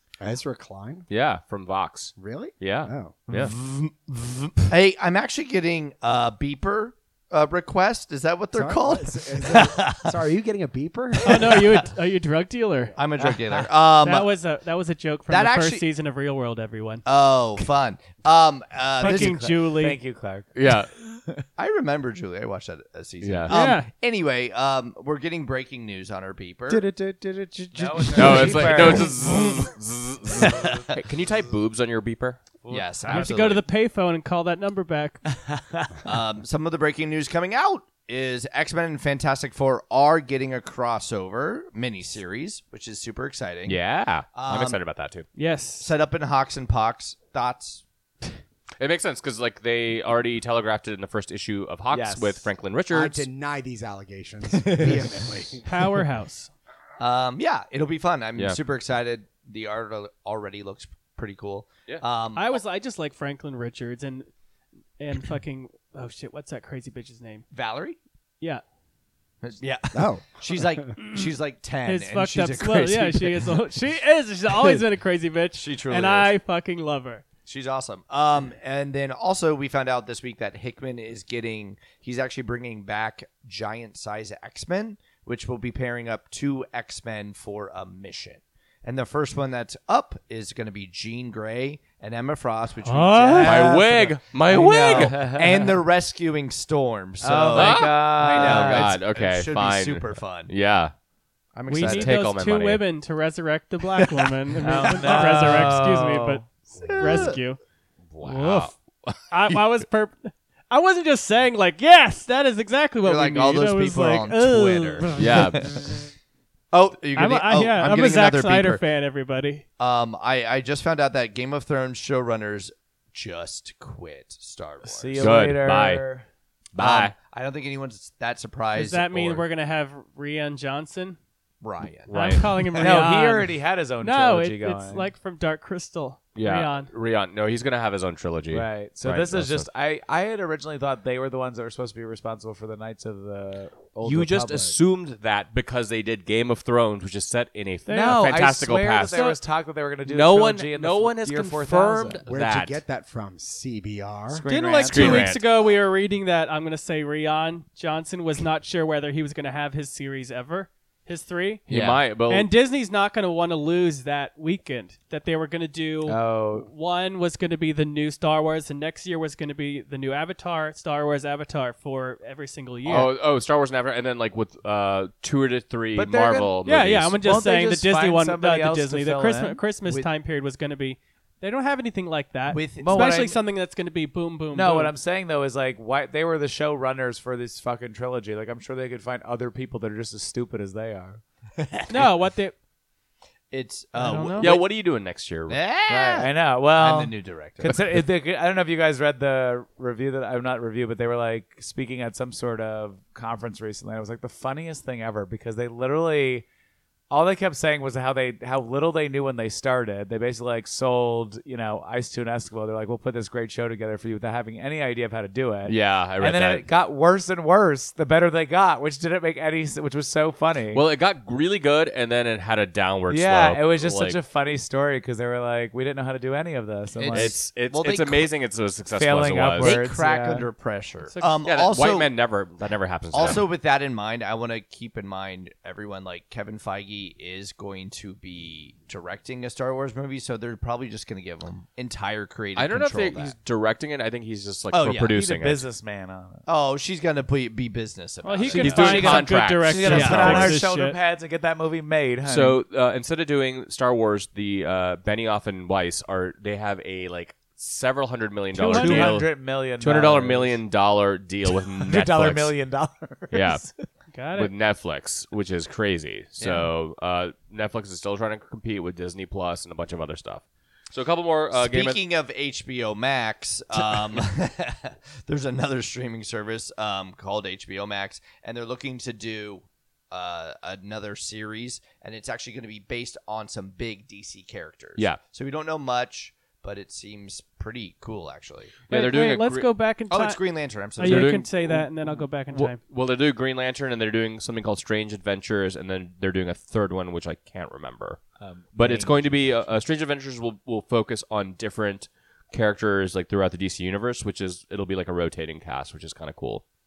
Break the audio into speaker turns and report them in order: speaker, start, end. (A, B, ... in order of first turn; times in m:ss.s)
0:00.2-0:01.0 A
0:01.1-0:03.5 B
0:02.2-0:03.2 A
0:03.3-0:10.1 C
0:08.5-0:11.7 A
0:11.2-0:13.0 D
0:11.3-0:11.8 C
0:13.0-0:14.3 C
0:13.2-0:13.6 E
0:14.0-0:17.0 D
0:15.3-0:15.8 C
0:17.0-0:19.4 C
0:19.0-0:20.0 D
0:19.0-0:21.5 E
0:20.5-0:20.9 B
0:21.6-0:26.8 C
0:23.2-0:23.5 B
0:23.5-0:23.9 D
0:26.7-0:29.0 A
0:27.7-0:29.3 E
0:28.1-0:32.4 B
0:30.4-0:30.8 E
0:30.4-0:30.8 C
0:32.6-0:33.3 E
0:32.7-0:33.6 C
0:33.1-0:35.2 D
0:35.4-0:36.0 E
0:36.0-0:43.8 C
0:43.6-0:45.2 B
0:44.3-0:44.8 C
0:45.3-0:45.9 D
0:45.8-0:47.8 C
0:48.8-0:53.2 B
0:51.9-0:52.5 E
0:52.9-0:55.8 A
0:54.5-0:55.1 E
0:55.6-0:56.5 D
0:57.0-1:02.6 C
1:02.3-1:04.3 D
1:05.0-1:07.4 D
1:07.5-1:08.0 C
1:09.4-1:13.5 C
1:09.9-1:10.9 A
1:11.0-1:11.2 D
1:11.8-1:17.2 D
1:15.6-1:16.3 C
1:17.4-1:34.0 C
1:32.8-1:33.8 D
1:33.3-1:35.8 E
1:33.4-1:35.2 B
1:34.5-1:40.5 C
1:37.2-1:38.9 E
1:37.5-1:40.9 B
1:41.5-1:42.1 C
1:41.7-1:47.6 D
1:41.7-1:42.8 B
1:44.6-1:46.4 E
1:44.8-1:45.2 C
1:46.8-1:47.4 C
1:48.1-1:49.6 B
1:48.2-1:48.7 D
1:49.3-1:55.7 D
1:53.0-1:55.8 C
1:55.1-1:55.7 B
1:56.7-1:58.8 C
1:57.1-1:59.6 D
1:59.8-2:05.3 C
2:04.8-2:06.3 E
2:05.2-2:06.0 B
2:06.7-2:07.1 B
2:06.8-2:09.4 C
2:08.7-2:11.2 D
2:11.6-2:13.0 C
2:12.1-2:12.6 B
2:12.1-2:16.9 D
2:12.8-2:15.1 E
2:16.3-2:19.7 B
2:18.5-2:24.8 E
2:24.0-2:29.3 B
2:27.9-2:28.3 D
2:27.9-2:32.2 E
2:29.1-2:29.4 D
2:30.0-2:32.8 B
2:32.3-2:34.4 A
2:34.3-2:35.3 E
2:34.4-2:41.7 D
2:34.9-2:35.4 B
2:41.7-2:42.5 B
2:41.7-2:42.0 C
2:42.2-2:53.1 D
2:46.0-2:46.7 E
2:52.8-2:57.2 B
2:55.9-2:56.5 E
2:56.6-3:04.9 D
2:57.2-2:59.6 E
3:02.5-3:03.1 C
3:02.8-3:03.4 E
3:04.5-3:11.2 E
3:11.6-3:12.1 C
3:11.9-3:12.5 D
3:13.5-3:14.6 C
3:13.9-3:14.5 D
3:14.4-3:15.6 B
3:15.5-3:17.8 C
3:15.9-3:26.4 E
3:27.1-3:40.8 E
3:35.6-3:36.6 B
3:40.7-3:44.2 B
3:43.1-3:47.4 E
3:47.0-3:48.3 C
3:47.1-3:49.8 B
3:48.9-3:50.5 E
3:49.6-3:52.1 C
3:51.1-3:51.4 D
3:51.4-3:53.4 B
3:53.1-4:03.3 C
4:02.6-4:05.6 B
4:04.7-4:05.1 C
4:05.1-4:06.4 E
4:06.4-4:09.2 C
4:08.2-4:11.0 D
4:08.5-4:10.5 B
4:08.5-4:12.6 E
4:09.9-4:10.5 C
4:12.2-4:22.5 B
4:18.5-4:19.2 D
4:18.6-4:20.6 E
4:21.5-4:23.8 E
4:23.3-4:23.7 B
4:24.1-4:24.5 D
4:24.4-4:32.0 B
4:26.4-4:26.7 C
4:31.5-4:48.8 C
4:48.9-4:49.7 B
4:48.9-4:50.4 D
4:50.1-4:51.4 C
4:51.0-4:52.8 D
4:51.0-4:51.9 B
4:52.5-4:58.2 B
4:58.4-4:59.4 E
4:58.7-5:06.6 B